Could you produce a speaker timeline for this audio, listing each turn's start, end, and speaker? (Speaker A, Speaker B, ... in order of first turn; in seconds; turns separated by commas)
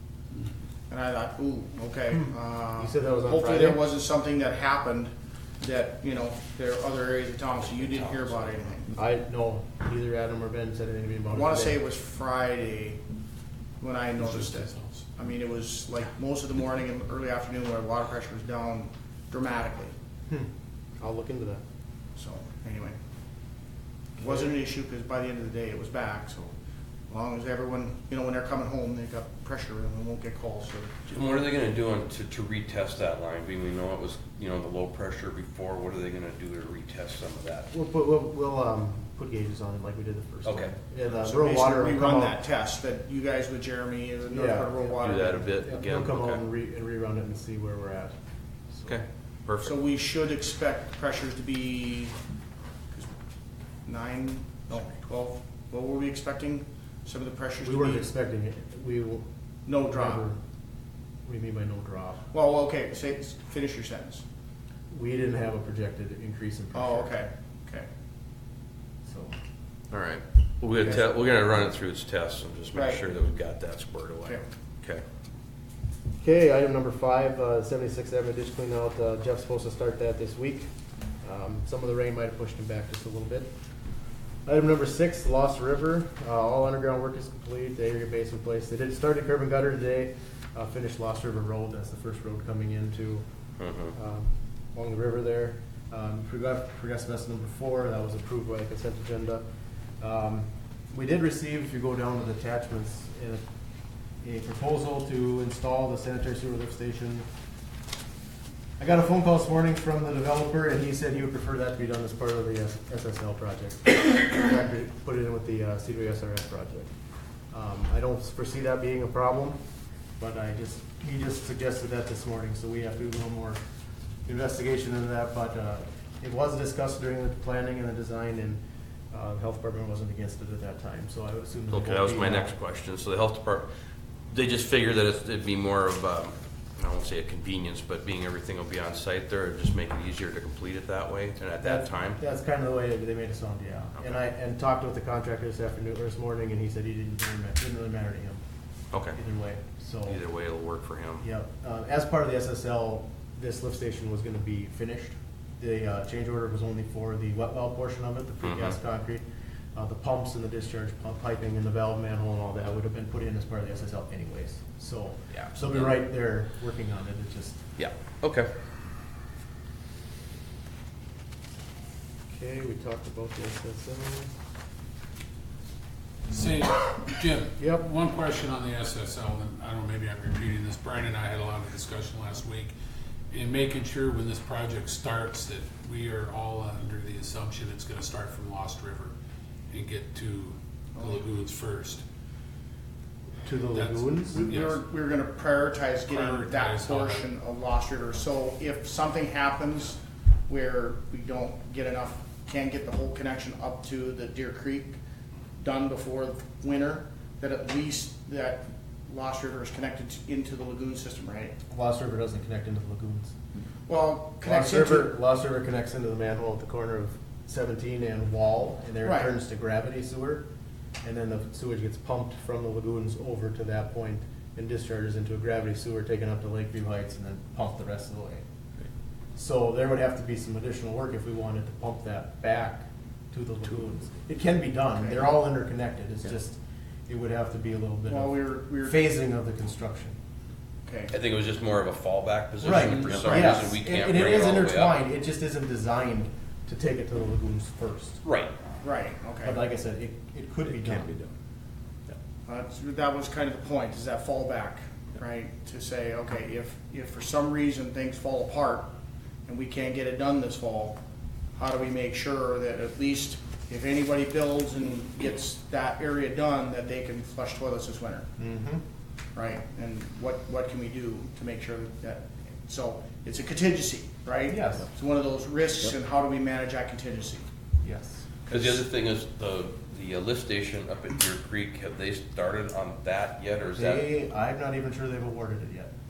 Speaker A: 0.9-8.9, Speaker B: 2.8-3.8, Speaker C: 7.8-8.5, Speaker B: 8.9-11.8, Speaker A: 11.3-13.0, Speaker A: 13.8-19.9, Speaker D: 14.2-15.1, Speaker B: 21.0-21.6, Speaker A: 22.2-23.0, Speaker B: 24.2-24.5, Speaker A: 24.2-26.5, Speaker A: 27.1-31.0, Speaker C: 31.1-37.7, Speaker B: 37.7-42.4, Speaker C: 40.5-40.8, Speaker A: 41.1-45.4, Speaker B: 44.3-48.1, Speaker C: 45.0-46.4, Speaker C: 48.9-49.7, Speaker A: 49.6-52.2, Speaker A: 53.9-58.1, Speaker B: 57.6-59.3, Speaker A: 59.7-60.2, Speaker B: 59.8-60.4, Speaker B: 61.2-62.2, Speaker A: 62.3-64.2, Speaker B: 64.9-67.1, Speaker A: 66.7-67.9, Speaker B: 69.1-69.3, Speaker C: 69.9-75.0, Speaker A: 72.7-73.0, Speaker B: 76.2-80.7, Speaker B: 81.2-83.5, Speaker B: 84.5-93.2, Speaker C: 93.6-93.9, Speaker B: 93.9-99.4, Speaker B: 100.0-103.4, Speaker B: 104.2-107.3, Speaker B: 108.8-116.9, Speaker B: 117.5-119.6, Speaker B: 120.2-123.6, Speaker B: 124.3-128.6, Speaker B: 129.1-132.5, Speaker C: 131.7-133.7, Speaker C: 134.3-142.2, Speaker B: 141.6-148.4, Speaker C: 148.9-149.2, Speaker B: 149.1-150.2, Speaker C: 150.1-151.2, Speaker B: 151.2-159.2, Speaker C: 158.4-158.8, Speaker B: 159.8-167.6, Speaker C: 165.3-166.0, Speaker C: 167.8-168.5, Speaker B: 172.3-174.3, Speaker D: 176.3-182.7, Speaker B: 177.6-177.9, Speaker D: 183.3-189.2, Speaker D: 189.7-192.0, Speaker A: 191.0-191.2, Speaker B: 193.4-194.4, Speaker D: 193.7-194.8, Speaker A: 194.3-205.0, Speaker D: 196.1-197.2, Speaker A: 205.6-211.6, Speaker B: 211.7-213.3, Speaker A: 213.9-215.1, Speaker B: 214.4-220.4, Speaker A: 219.0-219.3, Speaker B: 221.0-228.4, Speaker B: 229.4-240.2, Speaker A: 235.0-235.3, Speaker A: 238.1-239.0, Speaker A: 240.9-241.1, Speaker C: 241.1-245.0, Speaker B: 242.6-248.2, Speaker D: 242.7-243.4, Speaker C: 248.2-248.5, Speaker A: 248.8-249.6, Speaker B: 249.4-251.2, Speaker A: 252.5-258.9, Speaker A: 259.5-261.0, Speaker A: 261.6-268.3, Speaker B: 268.4-268.8, Speaker A: 269.4-277.4, Speaker B: 274.5-274.9, Speaker B: 277.8-278.3, Speaker C: 278.5-284.1, Speaker B: 283.8-285.9